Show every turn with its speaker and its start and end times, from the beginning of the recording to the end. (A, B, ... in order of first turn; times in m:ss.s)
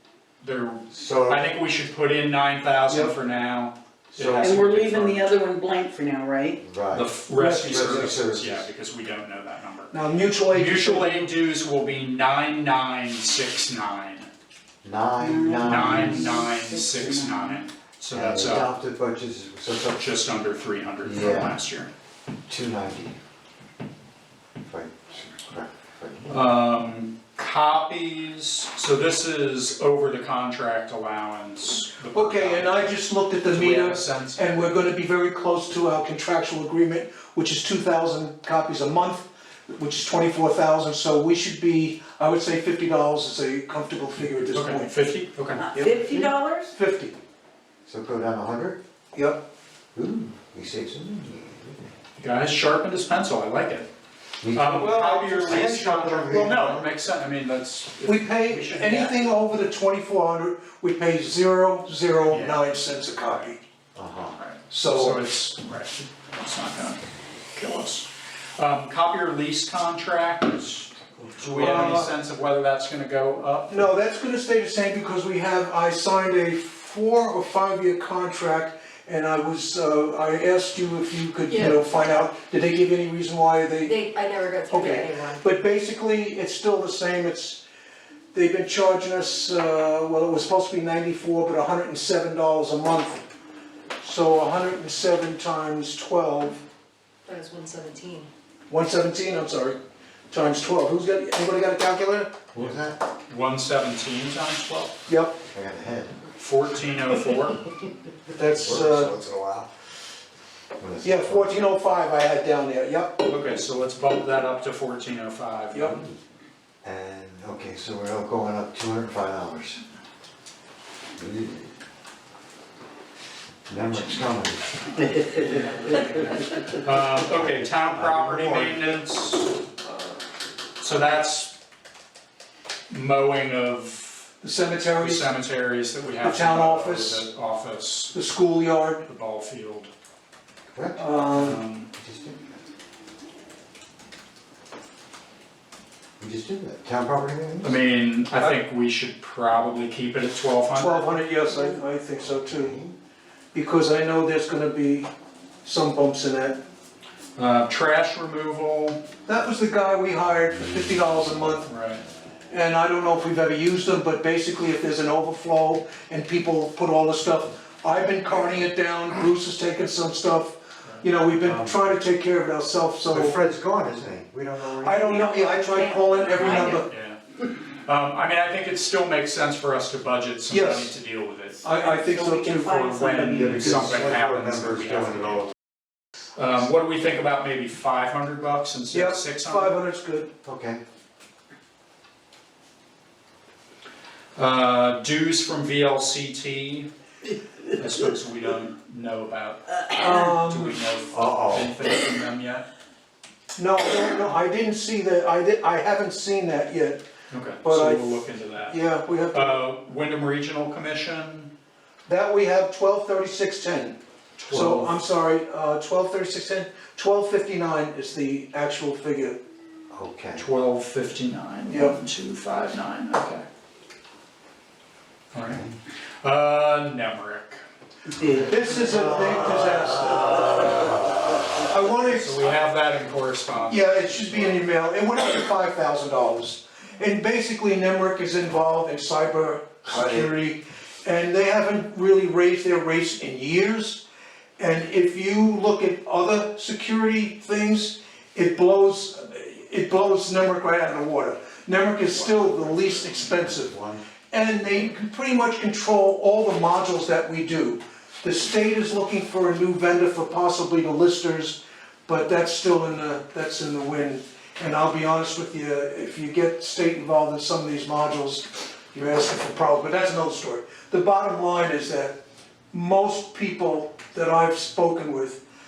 0:00.4-0:05.3 A
0:00.9-0:01.4 B
0:02.9-0:03.1 C
0:04.1-0:04.6 B
0:04.4-0:06.6 D
0:06.6-0:08.6 B
0:06.9-0:10.0 A
0:07.3-0:08.2 C
0:09.9-0:11.3 C
0:10.5-0:14.3 A
0:14.8-0:16.4 B
0:15.2-0:17.4 D
0:15.6-0:18.7 A
0:18.1-0:20.0 B
0:19.8-0:21.9 A
0:21.0-0:21.6 B
0:22.5-0:23.2 B
0:24.6-0:26.5 B
0:26.3-0:34.8 A
0:32.1-0:45.0 C
0:44.5-0:45.6 A
0:45.7-0:46.7 D
0:45.7-0:47.2 C
0:47.8-0:48.8 B
0:49.1-0:49.4 C
0:49.9-0:51.8 B
0:52.2-0:53.9 A
0:54.4-0:56.9 B
0:54.5-0:59.3 A
0:54.7-0:55.7 C
0:58.0-1:03.6 C
1:02.3-1:02.6 A
1:03.9-1:04.4 B
1:04.4-1:13.8 A
1:04.7-1:05.2 C
1:11.5-1:12.1 C
1:13.7-1:24.0 C
1:21.5-1:21.8 E
1:23.8-1:25.4 E
1:24.7-1:27.6 C
1:28.3-1:33.2 C
1:34.0-1:36.6 C
1:37.3-1:38.3 E
1:38.7-1:39.8 C
1:40.3-1:42.4 C
1:42.5-1:43.0 B
1:43.3-1:44.9 A
1:45.1-1:45.4 C
1:45.5-1:46.2 B
1:46.4-1:47.7 A
1:48.3-1:49.1 C
1:48.4-1:49.8 B
1:50.8-1:51.6 B
1:51.0-1:53.3 C
1:53.2-1:55.9 A
1:55.8-1:56.1 B
1:56.8-1:59.8 B
2:01.2-2:01.7 B
2:03.7-2:05.3 B
2:05.4-2:09.6 A
2:07.3-2:08.8 B
2:10.8-2:11.6 A
2:12.9-2:14.3 A
2:14.4-2:15.2 C
2:15.0-2:18.2 A
2:16.2-2:17.2 C
2:18.1-2:19.0 C
2:19.0-2:19.9 A
2:20.7-2:21.0 B
2:21.0-2:21.6 C
2:21.1-2:21.9 A
2:21.9-2:22.6 B
2:26.2-2:27.8 B
2:27.6-2:31.2 A
2:30.7-2:32.8 C
2:32.2-2:33.0 B
2:33.5-2:35.1 C
2:35.6-2:36.6 C
2:37.4-2:39.0 A
2:39.2-2:41.7 C
2:41.6-2:42.0 A
2:42.5-2:53.4 C
2:51.4-2:52.0 B
2:53.1-2:55.1 B
2:54.7-2:56.9 C
2:55.1-2:56.8 E
2:56.4-2:57.2 A
2:57.8-3:01.6 A
3:00.5-3:01.0 C
3:01.6-3:03.0 C
3:01.7-3:03.1 D
3:02.6-3:05.5 A
3:03.1-3:05.5 B
3:06.4-3:09.8 A
3:08.9-3:10.3 C
3:10.4-3:10.8 B
3:14.4-3:16.9 A
3:17.7-3:22.7 A
3:19.9-3:20.8 C
3:21.1-3:21.8 B
3:23.6-3:27.0 C
3:27.3-3:28.8 A
3:27.6-3:29.6 C
3:29.3-3:31.5 A
3:32.0-3:34.0 C
3:34.4-3:35.0 A
3:34.5-3:39.4 C
3:39.9-3:40.4 B
3:40.4-3:43.4 A
3:41.7-3:42.0 C
3:45.3-3:45.7 A
3:45.5-3:45.7 B
3:46.2-3:47.6 A
3:48.3-3:50.9 C
3:51.5-3:52.6 C
3:52.0-3:54.7 A
3:53.7-4:04.0 C
3:59.9-4:00.3 B
4:04.6-4:13.8 C
4:13.4-4:14.0 B
4:14.3-4:32.2 C
4:32.7-4:35.4 C